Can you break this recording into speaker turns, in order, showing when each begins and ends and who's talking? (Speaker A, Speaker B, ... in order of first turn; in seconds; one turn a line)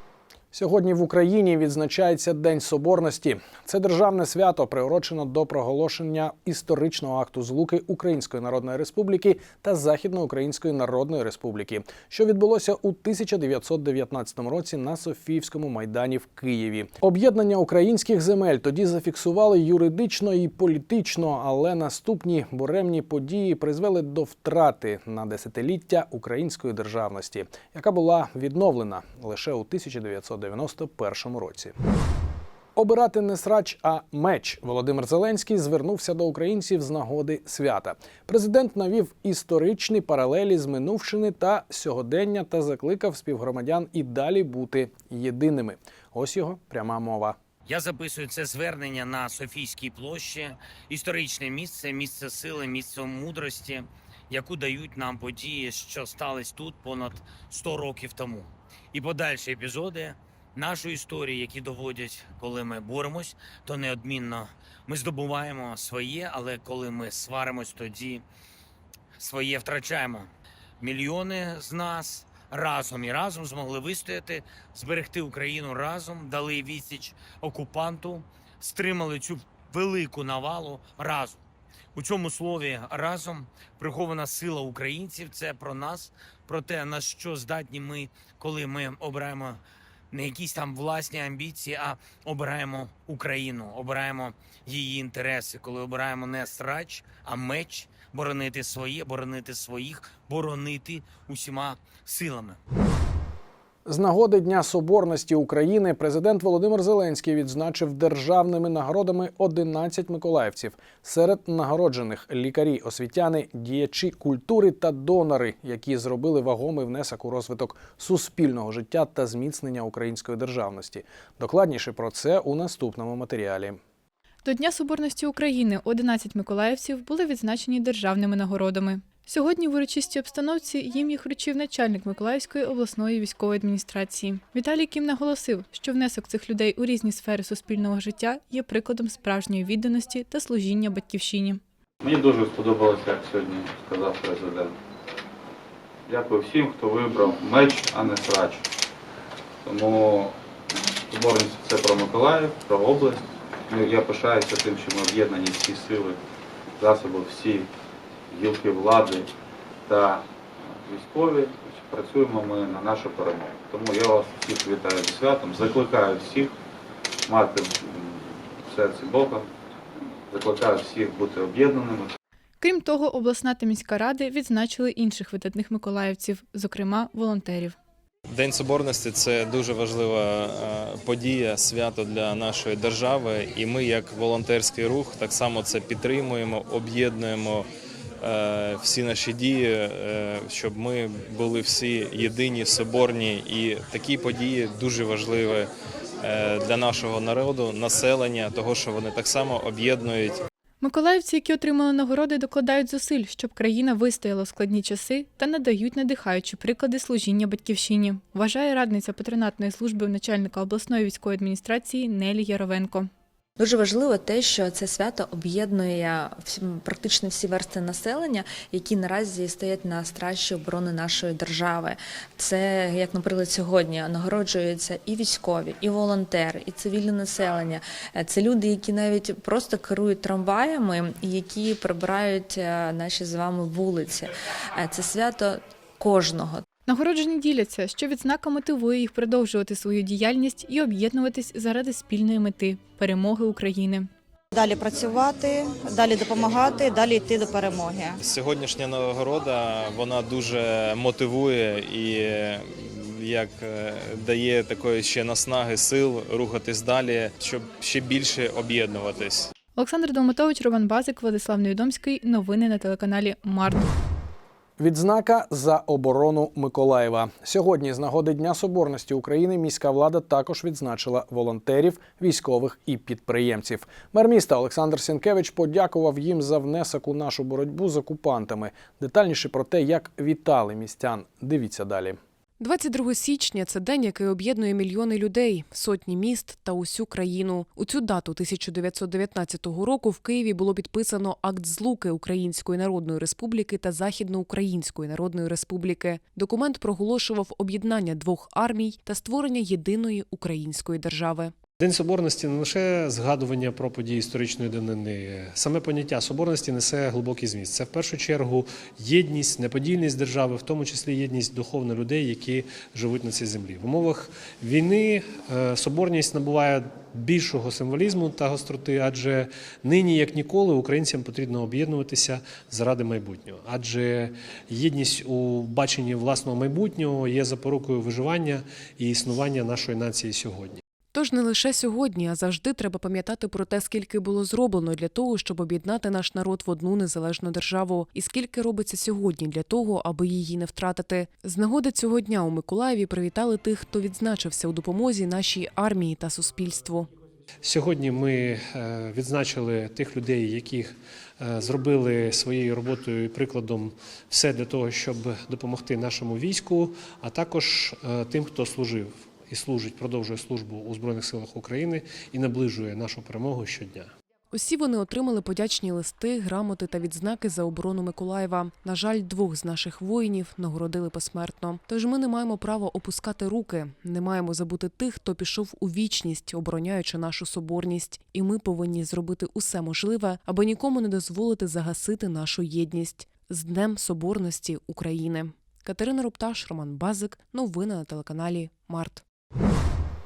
Speaker A: 0.5-31.7
Speaker A: 32.8-47.4
Speaker B: 47.7-68.2
Speaker B: 69.2-81.4
Speaker B: 82.0-89.6
Speaker B: 90.1-102.6
Speaker A: 103.9-123.8
Speaker C: 124.4-141.6
Speaker D: 142.0-144.7
Speaker D: 146.1-148.7
Speaker D: 149.6-150.3
Speaker D: 151.1-156.2
Speaker D: 156.8-157.7
Speaker D: 158.3-159.3
Speaker D: 159.9-166.5
Speaker D: 167.3-169.5
Speaker D: 170.3-172.1
Speaker C: 172.6-177.8
Speaker E: 178.3-187.7
Speaker E: 188.2-195.7
Speaker E: 196.2-200.4
Speaker C: 200.8-213.1
Speaker F: 213.6-236.6
Speaker C: 236.9-244.1
Speaker G: 244.6-247.8
Speaker E: 248.2-259.5
Speaker C: 259.8-263.9
Speaker A: 264.8-282.2
Speaker H: 282.6-301.5
Speaker I: 301.8-330.8
Speaker H: 331.1-347.1
Speaker I: 347.6-364.1
Speaker H: 364.5-389.2